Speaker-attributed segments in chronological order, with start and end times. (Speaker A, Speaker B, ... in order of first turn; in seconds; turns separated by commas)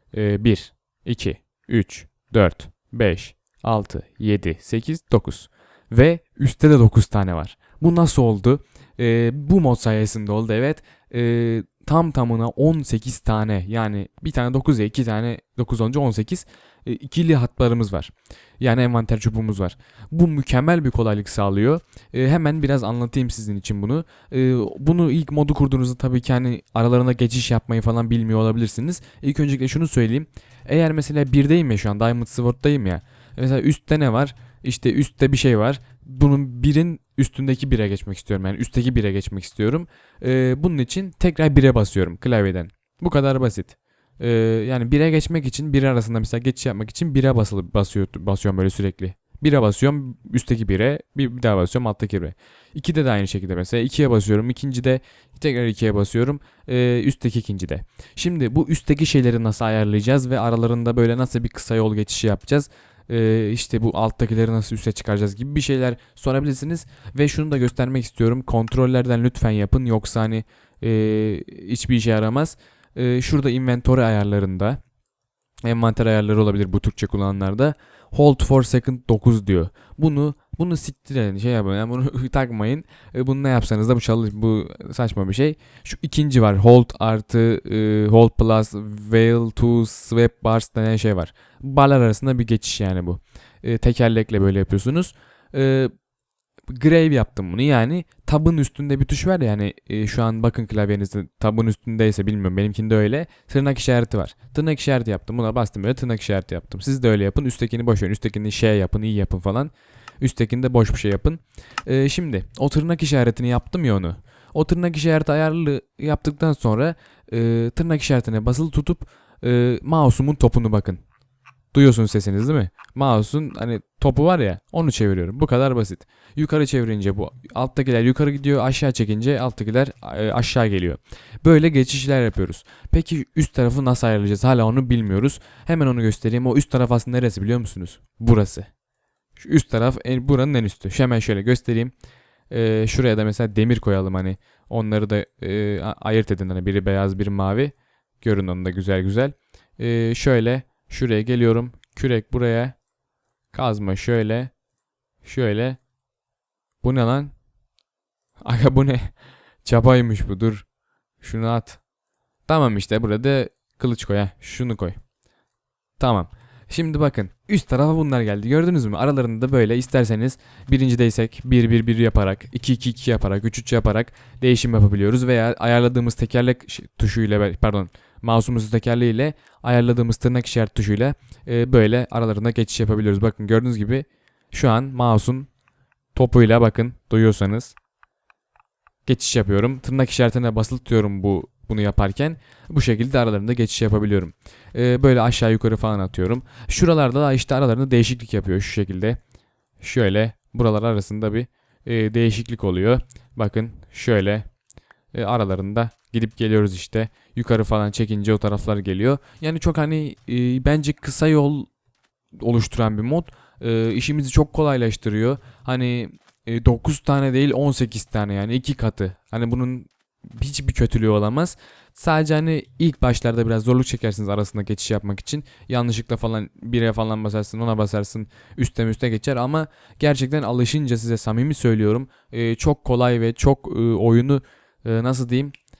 Speaker A: 0.1-74.8, Speaker A: 75.6-95.9, Speaker A: 96.7-121.0, Speaker A: 121.7-138.7, Speaker A: 139.3-141.9, Speaker A: 142.5-152.8, Speaker A: 153.5-154.5, Speaker A: 155.2-155.8, Speaker A: 156.8-157.3, Speaker A: 158.4-159.1, Speaker A: 159.6-160.7, Speaker A: 161.2-161.8, Speaker A: 162.5-165.0, Speaker A: 166.0-185.5, Speaker A: 186.1-187.7, Speaker A: 189.1-199.2, Speaker A: 199.8-204.4, Speaker A: 205.1-211.7, Speaker A: 212.4-235.5